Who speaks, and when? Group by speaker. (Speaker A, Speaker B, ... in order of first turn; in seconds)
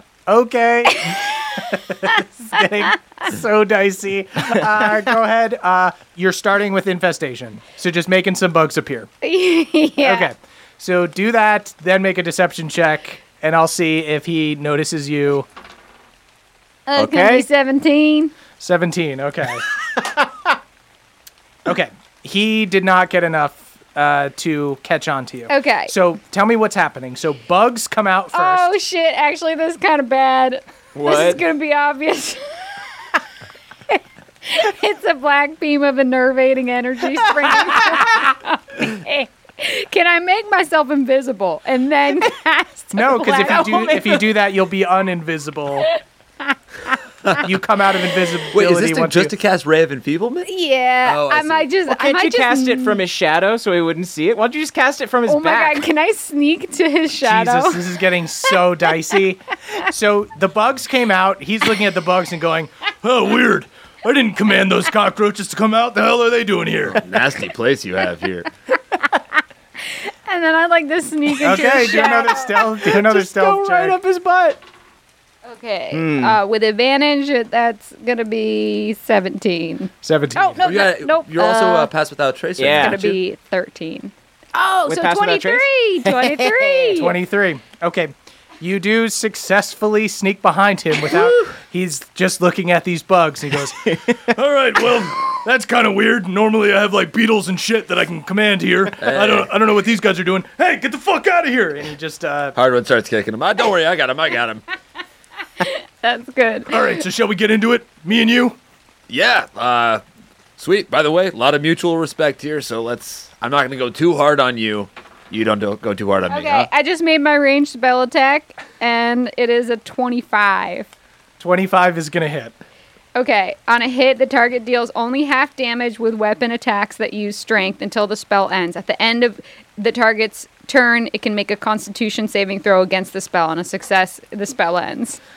Speaker A: 0.3-9.1, 10.0-15.5, 18.6-20.2, 21.6-28.7, 42.9-45.9, 47.3-49.3, 57.2-67.0, 71.4-74.0, 80.0-80.6, 86.9-102.5, 106.7-108.6, 121.4-122.5
Speaker B: 9.2-10.3, 16.9-18.3, 25.5-25.9, 28.3-32.4, 33.9-44.2, 50.4-53.0, 55.2-57.8, 70.0-72.7, 75.4-81.9, 82.7-87.2, 105.6-106.8, 116.3-120.9, 123.1-135.2
Speaker C: 16.9-17.5, 30.9-31.4, 51.9-55.9, 72.7-74.6, 75.9-76.4, 82.6-83.0, 84.8-86.9, 93.8-94.1
Speaker D: 48.5-50.5, 51.0-51.7, 66.9-68.5, 80.6-83.2, 99.0-99.5, 102.5-104.6, 109.1-110.0, 110.6-116.7